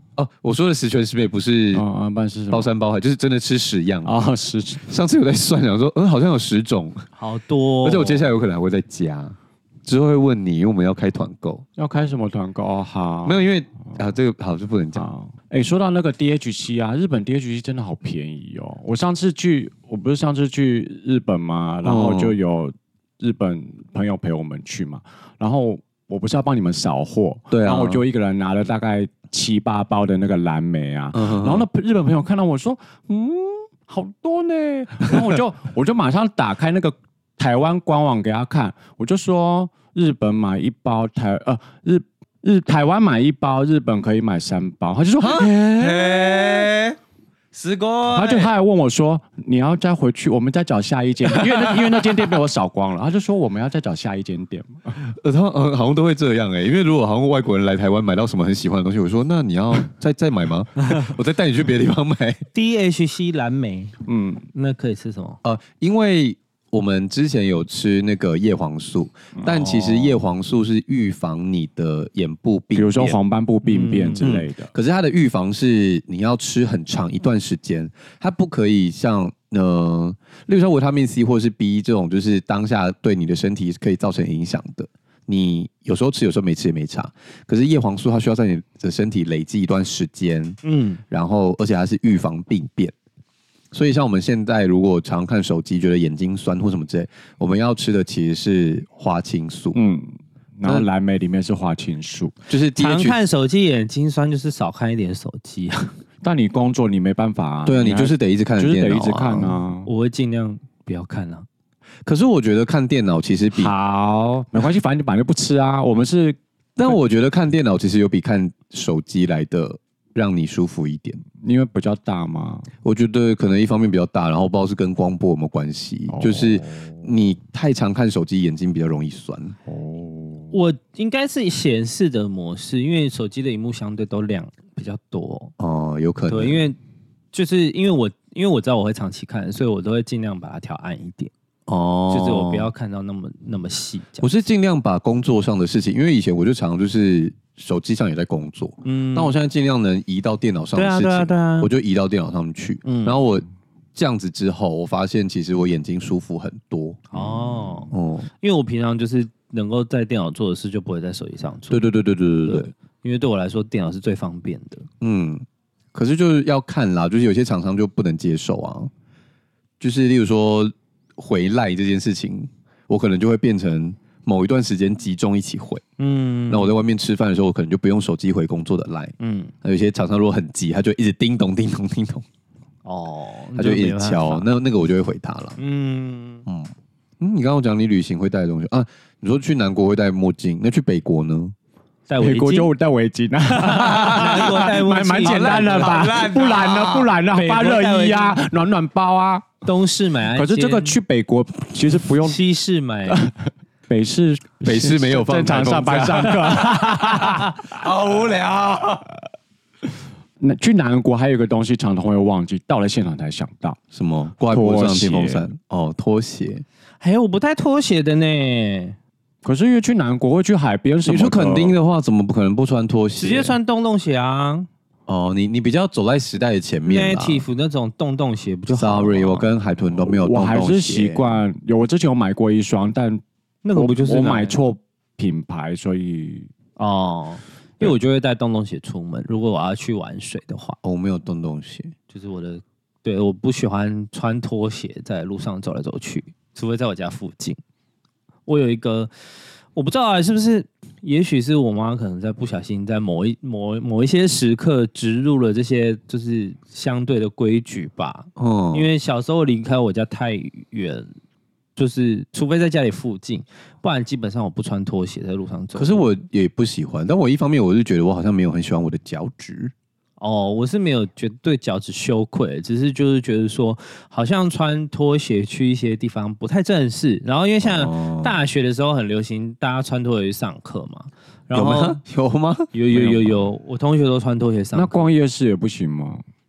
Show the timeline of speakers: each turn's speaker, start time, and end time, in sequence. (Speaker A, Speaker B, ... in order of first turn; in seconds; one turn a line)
Speaker A: 0.2-1.9
Speaker B: 1.7-2.7
Speaker A: 2.5-4.1
Speaker B: 4.0-4.8
Speaker A: 4.8-7.1
Speaker C: 7.2-8.3
Speaker A: 7.8-11.6
Speaker B: 11.8-13.4
Speaker A: 13.2-15.1
Speaker B: 14.9-46.7
Speaker A: 21.8-22.4
Speaker A: 27.5-28.0
Speaker A: 31.1-31.6
Speaker A: 45.2-47.0
Speaker A: 47.5-48.5
Speaker B: 48.1-55.0
Speaker A: 51.2-52.3
Speaker A: 55.1-62.4
Speaker C: 62.5-64.0
Speaker B: 64.1-64.5
Speaker C: 64.5-65.4
Speaker A: 65.4-73.2
Speaker C: 69.5-70.2
Speaker B: 72.7-74.7
Speaker C: 73.7-74.3
Speaker A: 74.2-92.9
Speaker C: 90.6-91.0
Speaker A: 93.7-99.8
Speaker B: 99.7-102.3
Speaker A: 102.5-103.2
Speaker C: 102.8-105.9
Speaker B: 106.2-109.9
Speaker A: 107.7-109.6
Speaker C: 109.8-111.5
Speaker A: 112.0-113.7
Speaker B: 113.5-117.0
Speaker A: 116.8-121.2
Speaker B: 121.4-122.7
Speaker A: 122.8-129.6
Speaker B: 126.1-126.8
Speaker B: 129.7-130.5
Speaker C: 130.5-135.5
Speaker A: 135.6-136.7
Speaker C: 136.3-136.8
Speaker C: 137.3-141.3
Speaker A: 141.7-142.7
Speaker C: 142.1-144.3
Speaker A: 144.2-153.4
Speaker C: 148.8-149.3
Speaker C: 150.8-151.7
Speaker C: 152.8-153.2
Speaker A: 153.9-157.1
Speaker C: 157.1-161.9
Speaker A: 157.9-158.3
Speaker A: 161.7-162.7
Speaker C: 162.4-164.9
Speaker A: 165.0-168.9
Speaker A: 169.8-175.8
Speaker C: 176.0-176.7
Speaker A: 176.5-182.2
Speaker C: 179.2-179.5
Speaker C: 182.8-184.5
Speaker A: 183.6-185.6
Speaker C: 185.6-186.4
Speaker A: 186.5-191.5
Speaker C: 192.1-192.7
Speaker B: 192.2-199.5
Speaker C: 193.5-196.3
Speaker A: 193.7-197.1
Speaker C: 197.3-198.4
Speaker C: 199.6-201.0
Speaker B: 200.3-202.4
Speaker C: 202.2-203.3
Speaker B: 203.1-207.6
Speaker A: 204.6-209.1
Speaker B: 210.4-213.8
Speaker A: 213.9-216.6
Speaker B: 214.5-215.5
Speaker C: 217.0-219.0
Speaker B: 219.4-221.8
Speaker A: 221.1-223.6
Speaker C: 223.2-224.7
Speaker A: 225.1-227.4
Speaker C: 226.8-229.5
Speaker A: 228.7-231.3
Speaker B: 230.0-233.2
Speaker C: 233.6-234.6
Speaker B: 233.8-236.5
Speaker C: 236.8-240.8
Speaker A: 240.8-241.9
Speaker C: 242.1-247.6
Speaker C: 248.5-249.1
Speaker C: 249.8-261.1
Speaker A: 258.4-258.9
Speaker C: 261.8-266.1
Speaker A: 265.8-269.7
Speaker C: 270.2-282.0
Speaker A: 277.6-278.3
Speaker A: 281.5-282.7
Speaker C: 282.7-285.1
Speaker B: 282.9-283.4
Speaker B: 284.7-286.2